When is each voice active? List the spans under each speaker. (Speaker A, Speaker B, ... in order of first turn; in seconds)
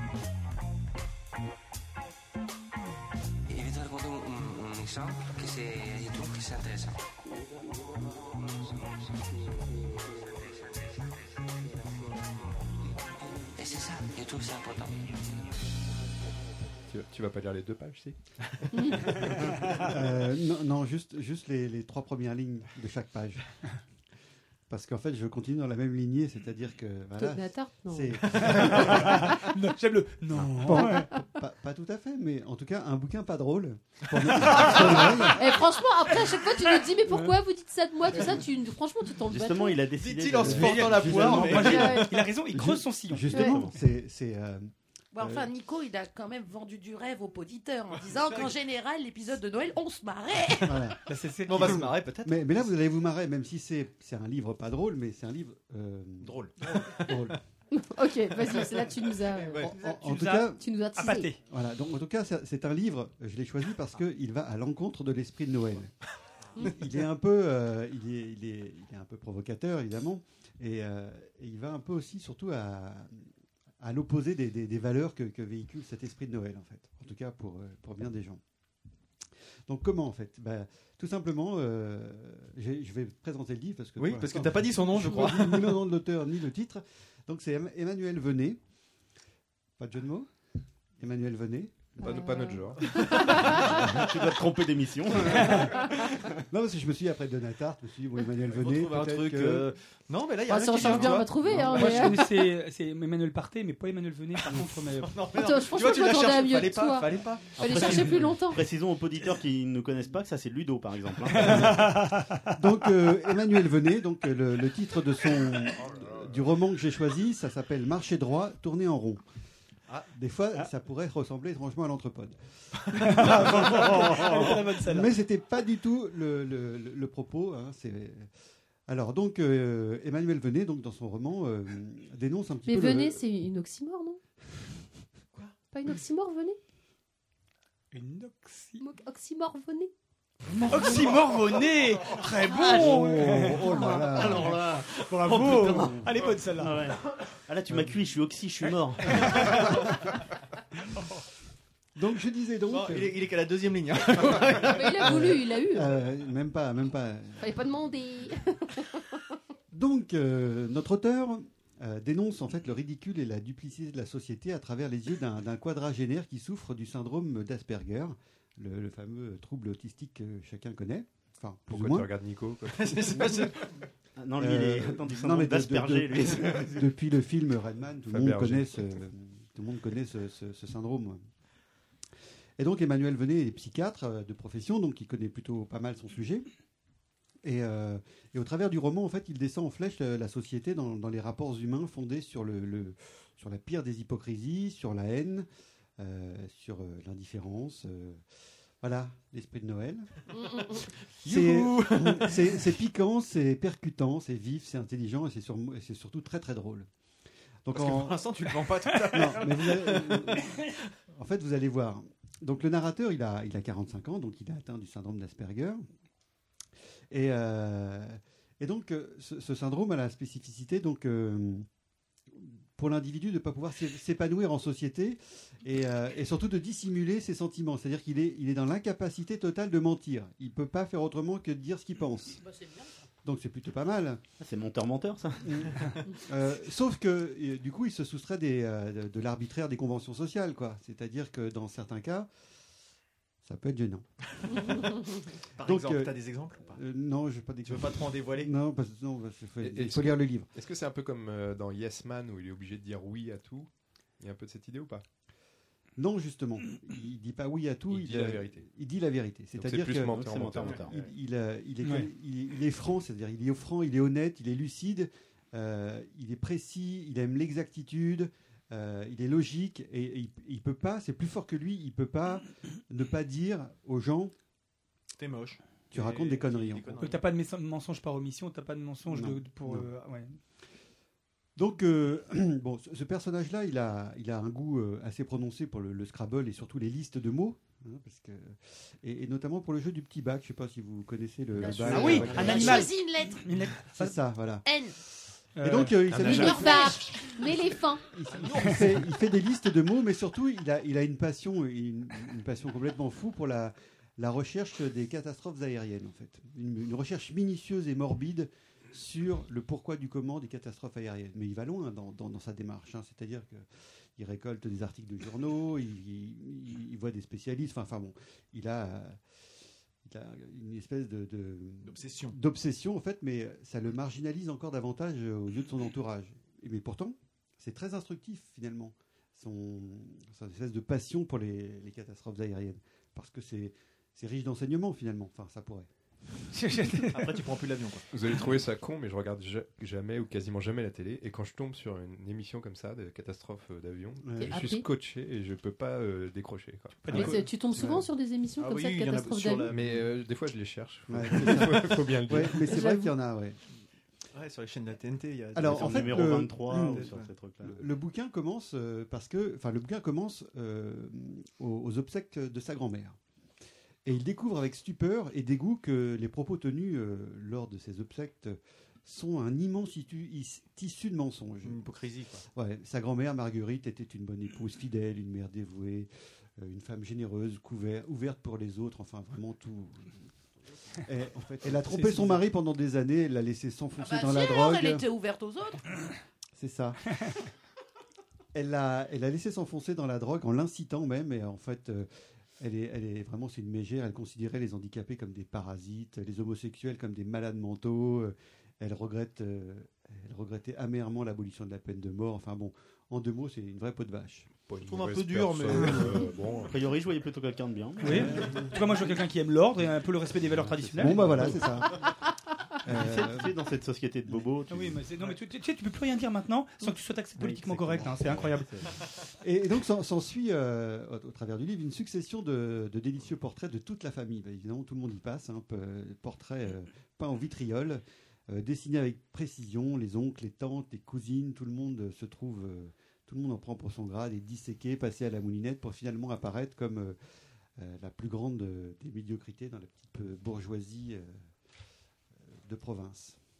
Speaker A: 3.5-7.0, 8.2-12.3, 13.6-15.6
Speaker B: 16.9-18.2, 19.0-19.6, 92.0-93.4, 171.7-173.5, 178.1-178.7, 249.6-253.7, 254.2-255.0, 257.9-258.6, 259.6-260.9, 296.1-296.5, 338.1-347.2, 349.7-352.6, 404.7-406.7
Speaker C: 18.7-19.0, 27.2-28.2, 30.9-31.2, 35.3-39.8, 43.3-43.6, 57.7-59.7, 60.5-61.3, 92.0-93.6, 100.5-102.2, 105.3-108.6, 132.7-134.2, 135.7-136.6, 138.8-139.9, 154.6-155.9, 157.4-159.2, 296.3-298.0, 344.4-344.9, 347.1-349.7, 352.7-353.1
Speaker D: 19.2-19.9, 28.4-31.1, 40.5-43.6, 51.1-51.9, 59.7-61.4, 101.0-105.2, 111.3-112.4, 122.9-125.1, 137.9-138.8, 140.7-147.0, 149.2-149.8, 277.0-280.4, 291.9-294.1, 295.6-296.6, 336.5-337.3, 347.0-347.3, 408.0-411.3, 414.7-418.7
Speaker E: 19.8-23.4, 24.7-29.4, 30.3-35.5, 40.4-41.9, 42.5-45.5, 50.6-51.0, 51.5-57.4, 59.6-60.7, 61.5-65.9, 66.6-73.3, 73.8-78.4, 79.7-88.6, 89.8-90.3, 91.0-92.1, 95.5-99.7, 112.5-119.2, 120.1-122.4, 123.1-128.3, 128.9-133.2, 142.5-144.6, 145.8-146.2, 147.7-147.9, 151.9-153.2, 155.0-157.4, 159.7-172.1, 174.3-181.2, 182.6-186.4, 187.4-195.5, 196.0-198.2, 198.8-200.1, 201.2-206.9, 207.6-208.2, 209.1-210.5, 211.1-215.8, 217.1-221.7, 222.3-232.4, 233.2-234.2, 235.4-242.3, 243.4-244.1, 245.6-250.5, 256.0-274.3, 275.9-277.0, 279.1-279.9, 281.6-292.8, 293.9-294.7, 295.6-297.0, 298.1-319.2, 320.0-335.9, 344.2-344.5, 347.1-348.0, 351.1-353.6, 355.5-363.2, 364.0-371.8, 372.5-380.3, 381.0-385.0, 386.6-387.1, 388.5-392.1, 392.6-404.5, 408.1-408.9, 410.6-412.0, 412.8-413.5, 419.4-437.2, 437.8-441.4, 442.4-443.4
Speaker F: 34.5-34.8, 40.0-42.3, 48.1-48.5, 51.5-52.7, 56.2-57.4, 58.4-59.7, 84.0-85.8, 98.5-102.2, 105.0-108.2, 140.6-141.2, 145.0-145.3, 152.7-155.2, 172.7-173.6, 201.2-202.7, 207.7-210.4, 244.4-244.9, 245.6-246.8, 247.7-248.5, 275.2-277.2, 321.8-322.4, 337.1-338.1, 348.6-349.8, 354.3-357.3, 371.6-372.4, 381.6-382.4, 404.9-406.2
Speaker G: 39.3-41.8, 43.4-43.7, 93.6-96.0, 107.6-112.0, 143.9-146.0, 146.6-149.5, 174.2-176.8, 234.4-235.9, 260.1-260.9, 291.6-292.7, 355.7-357.8, 406.6-408.6, 412.9-415.0, 416.9-418.9
Speaker H: 45.1-50.9, 232.4-232.9, 291.6-293.6, 294.6-294.9, 296.3-297.2, 384.0-385.8